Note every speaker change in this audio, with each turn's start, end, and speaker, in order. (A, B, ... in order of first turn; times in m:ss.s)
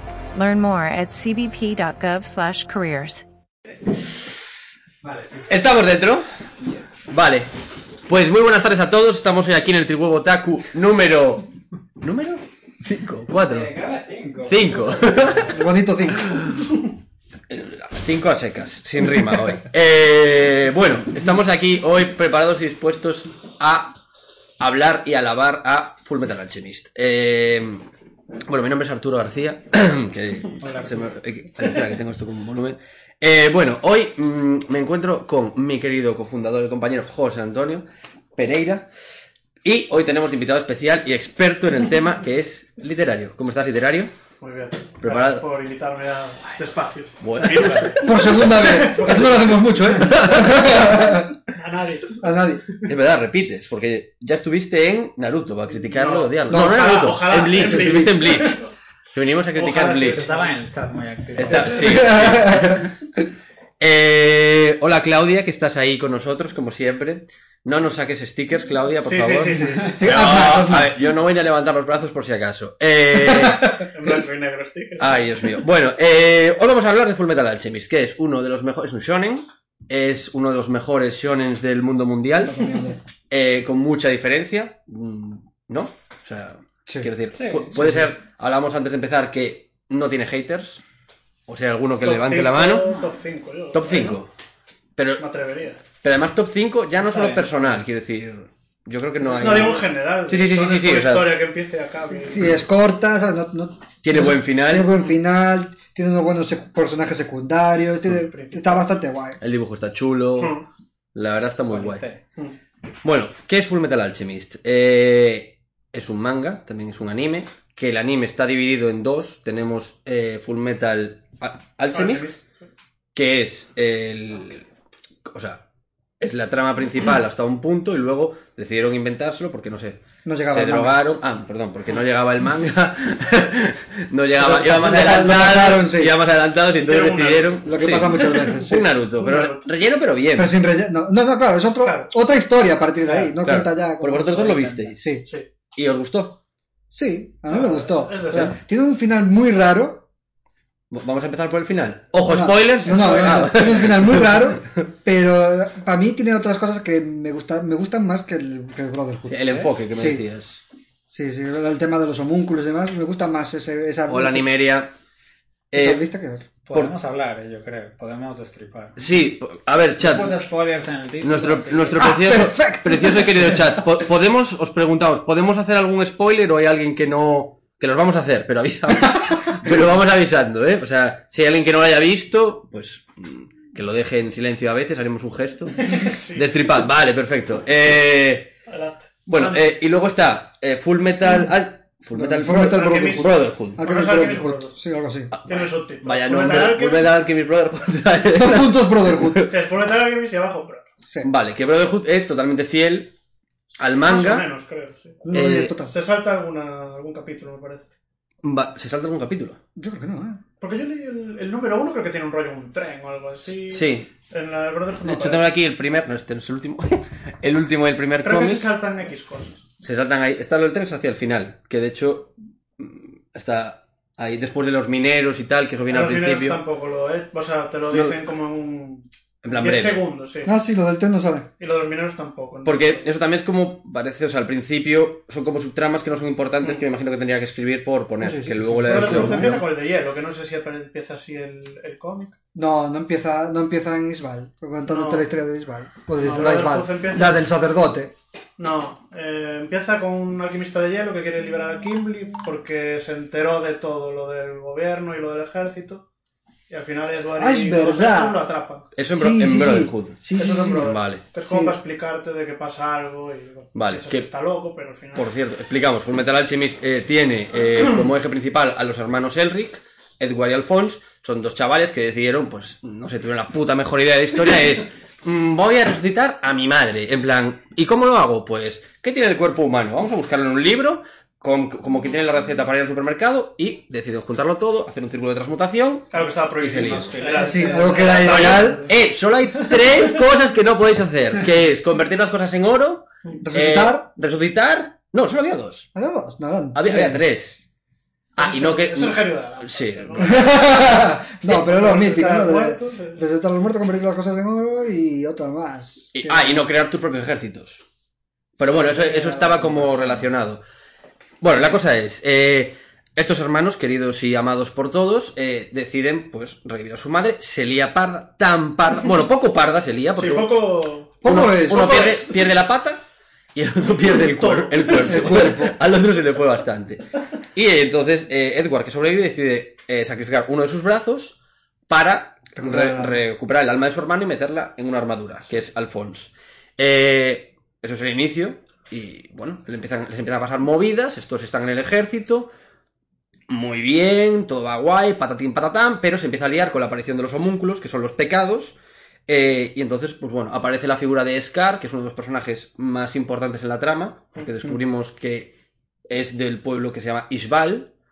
0:00.3-0:03.2 A
0:05.0-0:05.5 B
0:05.5-0:06.2 C
0:06.6-0:06.9 B
0:07.1-0:07.5 C
0:08.1-0:11.5 C
0:12.0-0:13.7 C
0:13.4-0:15.4 B
0:14.5-0:15.5 C
0:15.4-0:16.3 D
0:16.2-0:16.7 C
0:17.5-0:24.0 C
0:24.6-0:27.8 C
0:28.5-0:38.9 C
0:30.6-0:31.0 B
0:39.6-0:44.1 C
0:44.4-0:49.8 E
0:45.0-0:45.5 C
0:47.2-0:48.3 C
0:48.0-0:51.3 D
0:49.9-0:51.0 C
0:50.7-0:52.2 E
0:52.2-0:52.7 D
0:52.8-0:58.6 C
0:55.8-0:58.6 E
0:56.5-0:58.2 D
0:59.1-1:00.3 C
0:59.5-1:00.5 E
1:00.0-1:01.8 B
1:01.4-1:02.9 C
1:01.4-1:02.1 E
1:01.7-1:02.8 D
1:03.8-1:13.9 C
1:09.0-1:10.0 E
1:09.8-1:11.0 D
1:13.2-1:13.6 D
1:13.8-1:15.3 E
1:15.0-1:22.6 C
1:22.4-1:23.0 D
1:23.3-1:30.8 C
1:27.3-1:27.8 B
1:31.5-1:32.9 C
1:32.0-1:34.2 E
1:32.8-1:33.1 B
1:33.7-1:34.3 C
1:35.0-1:35.2 C
1:35.2-1:35.8 E
1:36.0-1:41.4 C
1:37.0-1:37.4 B
1:39.2-1:42.6 E
1:42.3-1:49.4 D
1:44.0-1:44.9 C
1:48.2-1:48.8 E
1:49.4-1:50.6 C
1:50.4-1:50.6 E
1:51.1-1:52.0 C
1:51.7-1:52.2 B
1:53.0-2:02.3 C
2:01.9-2:02.4 E
2:03.1-2:04.6 C
2:05.2-2:05.6 C
2:06.2-2:20.5 C
2:10.2-2:11.0 D
2:14.4-2:16.2 D
2:16.8-2:18.7 E
2:17.6-2:18.9 D
2:19.2-2:19.7 E
2:20.3-2:25.2 D
2:23.4-2:25.0 C
2:25.7-2:26.4 C
2:26.9-2:30.0 D
2:27.5-2:28.6 E
2:30.9-2:34.9 C
2:32.2-2:40.2 D
2:39.3-2:40.6 C
2:41.1-2:44.4 D
2:44.1-2:44.9 C
2:45.7-2:46.0 C
2:45.7-2:46.5 D
2:46.6-2:49.0 B
2:49.0-2:50.4 C
2:50.0-2:52.1 B
2:51.2-3:08.5 C
2:52.0-2:53.8 D
3:05.8-3:06.4 E
3:08.7-3:09.6 E
3:09.3-3:13.8 C
3:12.1-3:15.3 D
3:12.5-3:14.7 E
3:15.3-3:19.5 C
3:15.5-3:17.1 E
3:18.3-3:19.5 D
3:19.5-3:20.9 E
3:21.2-3:23.1 C
3:23.8-3:24.5 C
3:24.0-3:25.2 E
3:25.2-3:25.9 D
3:25.3-3:25.8 C
3:25.9-3:27.9 E
3:28.4-3:29.6 C
3:29.8-3:30.4 D
3:30.6-3:35.4 E
3:33.7-3:34.1 C
3:35.0-3:38.7 C
3:38.2-3:39.6 E
3:39.8-3:46.6 C
3:45.9-3:50.5 E
3:47.9-3:48.1 C
3:49.4-3:50.0 C
3:50.4-3:51.5 D
3:51.6-3:53.0 E
3:52.6-3:59.6 C
3:58.2-3:59.6 D
3:58.8-4:02.4 E
4:02.5-4:08.1 D
4:04.9-4:05.2 E
4:06.2-4:07.4 E
4:08.6-4:16.0 E
4:16.7-4:18.9 E
4:17.4-4:18.4 D
4:19.0-4:20.2 C
4:19.1-4:20.9 D
4:20.4-4:25.3 E
4:20.7-4:21.2 C
4:21.4-4:21.8 D
4:23.7-4:24.3 C
4:25.1-4:47.2 C
4:46.1-4:49.0 E
4:46.7-4:48.5 B
4:47.3-4:48.9 D
4:48.2-4:55.9 C
4:53.4-4:54.1 D
4:55.9-4:57.4 D
4:56.7-4:57.6 C
4:58.4-5:00.5 C
4:58.4-5:03.2 E
5:00.2-5:06.6 D
5:06.1-5:07.8 C
5:08.6-5:10.6 C
5:09.4-5:09.7 E
5:11.4-5:20.6 C
5:20.2-5:22.4 E
5:21.2-5:23.0 C
5:21.2-5:22.0 D
5:23.5-5:31.4 C
5:24.3-5:25.4 E
5:25.0-5:25.8 D
5:31.9-5:42.5 C
5:32.6-5:33.2 D
5:43.5-5:48.8 C
5:49.3-5:55.5 C
5:56.1-5:57.9 C